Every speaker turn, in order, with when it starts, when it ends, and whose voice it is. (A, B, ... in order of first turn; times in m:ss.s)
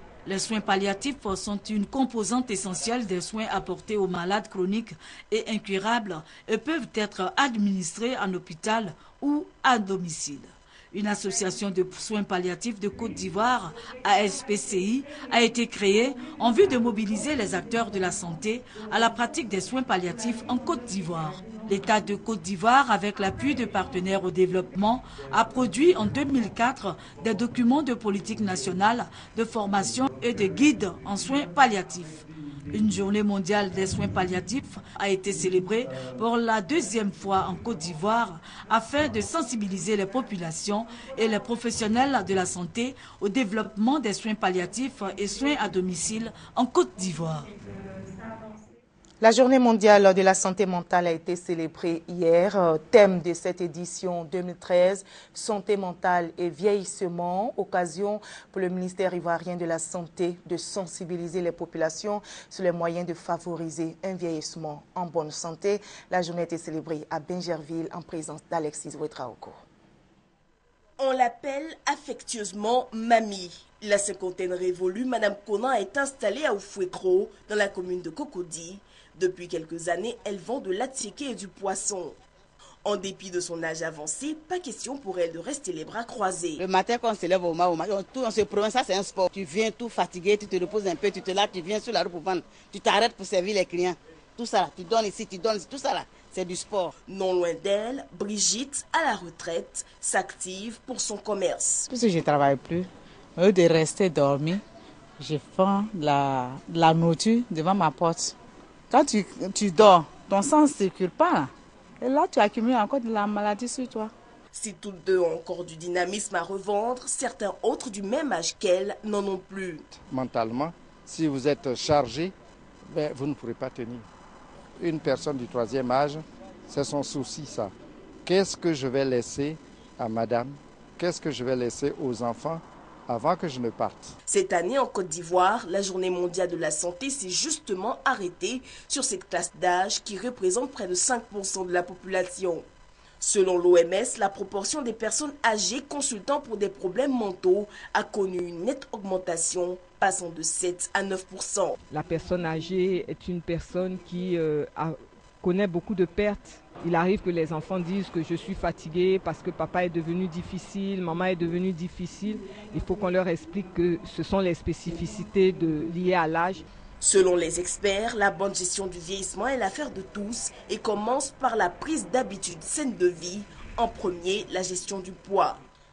0:00.2-0:47.5 A
0:49.2-1:09.6 B
1:11.0-1:22.2 C
1:22.8-1:26.6 C
1:26.6-1:37.0 D
1:37.1-1:41.8 C
1:41.9-1:44.6 E
1:45.2-1:48.4 E
1:48.9-1:54.1 E
1:54.5-1:59.9 C
1:59.9-2:02.4 F
2:02.9-2:04.0 F
2:04.8-2:07.7 F
2:08.2-2:14.1 F
2:14.3-2:22.7 C
2:23.2-2:31.8 C
2:31.9-2:46.6 G
2:47.0-2:55.6 C